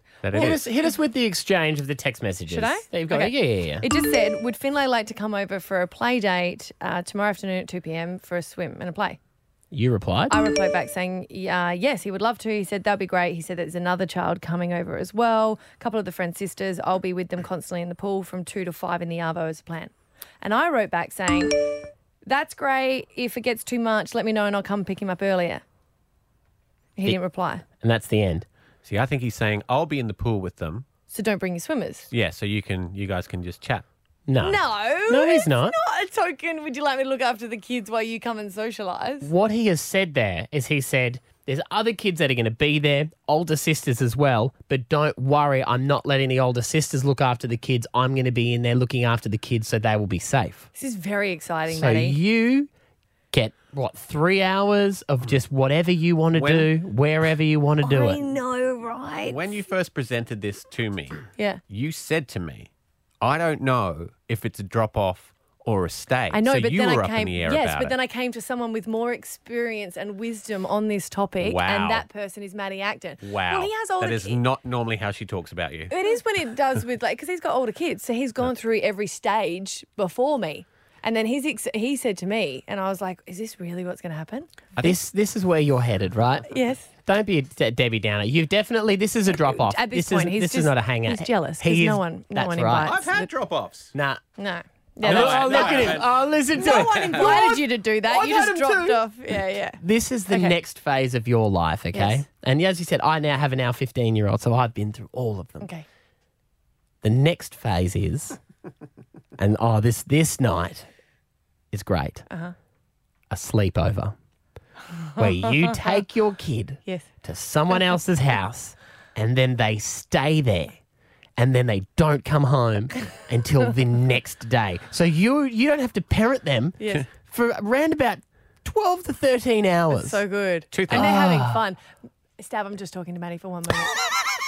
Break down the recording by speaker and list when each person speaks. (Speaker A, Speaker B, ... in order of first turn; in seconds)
Speaker A: 0.2-0.6, 28.9-30.9, 32.1-33.9, 56.4-56.7, 59.3-62.7, 63.2-67.9, 71.4-72.0, 73.2-75.9, 92.8-93.9, 95.0-97.4, 130.7-131.2
Speaker B: 0.3-3.9, 9.7-10.4, 27.8-28.4, 34.3-35.7, 39.2-50.7, 51.7-52.7, 53.3-58.2, 84.8-93.0, 93.9-94.2, 95.0-99.0, 99.8-105.7, 107.0-108.4, 109.4-110.9, 111.7-112.2, 113.3-114.1, 115.2-120.8, 121.4-130.2, 130.9-131.6
Speaker C: 2.5-9.2, 10.3-25.6, 27.0-27.6, 31.1-32.1, 34.4-39.3, 50.7-52.2, 57.8-59.4, 66.3-74.4, 75.9-84.5, 86.5-86.9, 89.3-93.3, 94.4-95.9, 96.5-100.5, 101.9-102.2, 115.2-115.8, 126.8-127.1, 129.9-131.8, 132.4-134.0